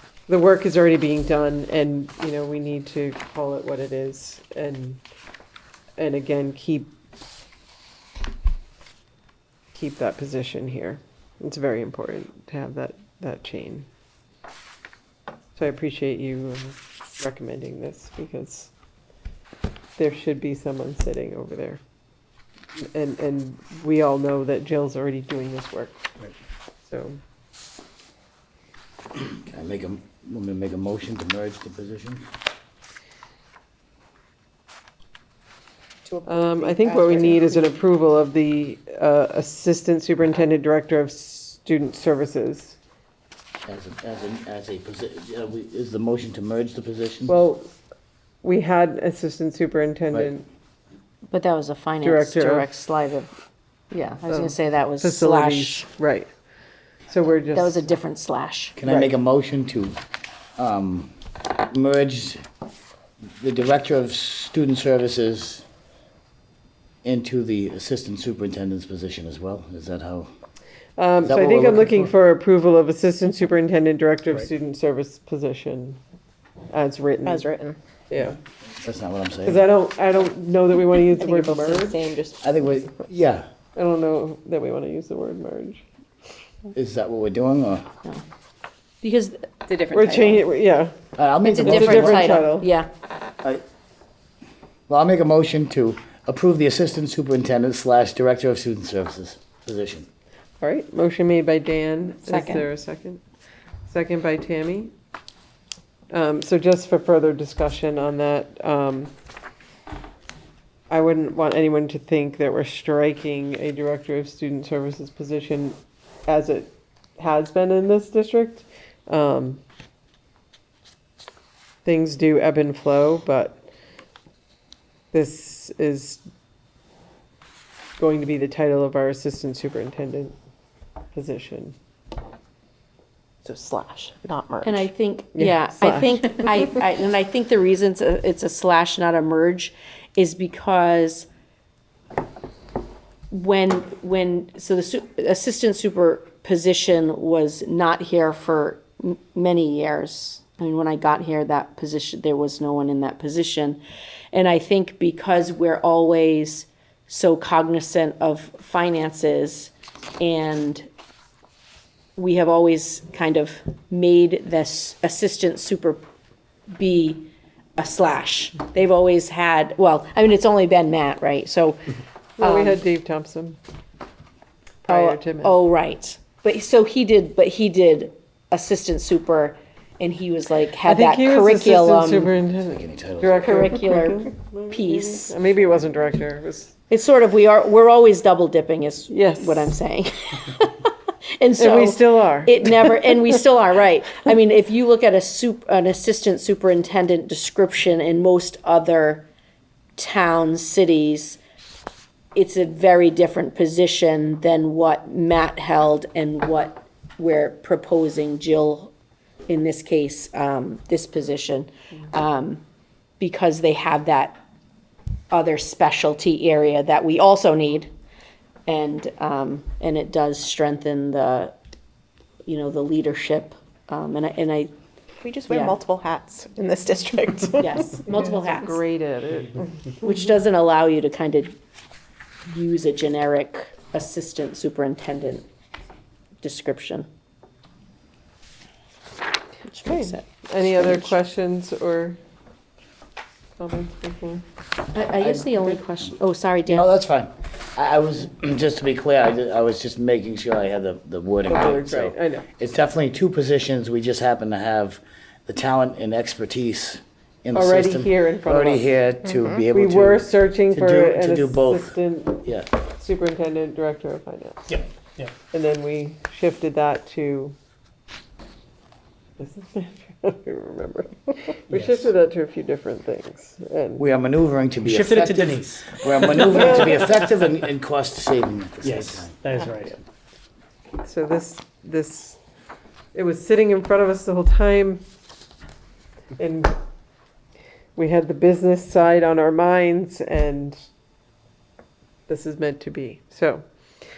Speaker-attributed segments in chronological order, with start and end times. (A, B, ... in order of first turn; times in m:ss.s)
0:00.3-0:05.0 A
0:06.0-0:06.9 A
0:09.8-0:13.9 A
0:15.6-0:18.7 A
0:20.0-0:21.8 A
0:22.8-0:26.0 A
0:26.8-0:27.2 A
0:29.3-0:32.3 B
0:36.1-0:37.6 C
0:36.3-0:42.8 A
0:43.7-0:47.4 B
0:47.3-0:47.7 A
0:48.4-0:50.5 A
0:51.3-0:53.3 C
0:52.0-0:52.7 A
0:53.9-0:55.9 C
0:54.3-0:56.3 A
0:57.1-0:57.9 A
0:57.5-0:58.8 C
0:58.8-1:00.0 B
0:58.9-0:59.1 A
1:00.6-1:01.1 B
1:01.7-1:02.4 B
1:03.4-1:05.6 B
1:07.0-1:10.3 B
1:11.0-1:16.0 A
1:11.3-1:12.1 B
1:16.7-1:17.5 A
1:17.2-1:17.8 D
1:18.1-1:18.4 A
1:18.8-1:19.6 B
1:19.4-1:22.1 A
1:21.1-1:22.4 D
1:22.4-1:23.5 B
1:23.8-1:25.8 A
1:26.7-1:27.9 B
1:29.0-1:30.4 C
1:29.9-1:30.9 A
1:31.2-1:32.4 B
1:31.4-1:32.9 C
1:31.6-1:32.7 A
1:34.9-1:40.1 B
1:40.6-1:43.2 A
1:42.3-1:42.6 C
1:43.9-1:44.9 A
1:46.1-1:49.1 A
1:50.9-1:59.6 A
2:01.8-2:03.6 A
2:05.1-2:06.2 A
2:08.0-2:10.4 A
2:11.1-2:11.8 A
2:13.4-2:14.8 D
2:14.6-2:21.3 C
2:15.3-2:16.4 A
2:23.3-2:33.8 C
2:34.3-2:40.9 C
2:42.2-2:46.0 C
2:46.7-2:52.8 C
2:52.4-2:53.6 A
2:54.8-2:55.6 A
2:54.9-3:02.3 C
3:00.8-3:06.8 A
3:02.7-3:03.6 B
3:03.3-3:05.4 C
3:06.9-3:19.3 C
3:09.1-3:09.8 A
3:11.6-3:13.0 A
3:20.0-3:21.4 C
3:22.4-3:28.9 C
3:29.5-3:32.6 C
3:33.2-3:34.4 C
3:35.3-3:37.9 C
3:38.7-3:41.6 C
3:42.5-3:44.7 C
3:45.2-3:47.9 D
3:45.5-3:45.8 C
3:47.6-3:48.8 C
3:48.1-3:49.7 A
3:50.0-3:51.5 C
3:52.5-3:55.5 C
3:56.4-3:57.1 C
3:59.6-4:01.1 C
3:59.9-4:02.2 A
4:03.6-4:04.4 A
4:04.9-4:06.9 C
4:05.2-4:05.7 B
4:06.7-4:22.7 B
4:11.5-4:12.5 A
4:17.5-4:18.9 A
4:19.7-4:22.4 A
4:23.0-4:24.8 A
4:24.7-4:25.3 E
4:25.5-4:27.6 A
4:29.4-4:34.0 A
4:31.7-4:32.1 E
4:34.0-4:39.3 B
4:34.8-4:36.9 E
4:38.8-4:40.0 E
4:41.0-4:42.4 A
4:43.1-4:45.0 A
4:46.4-4:46.8 A
4:48.0-4:50.8 A
4:52.3-4:53.6 A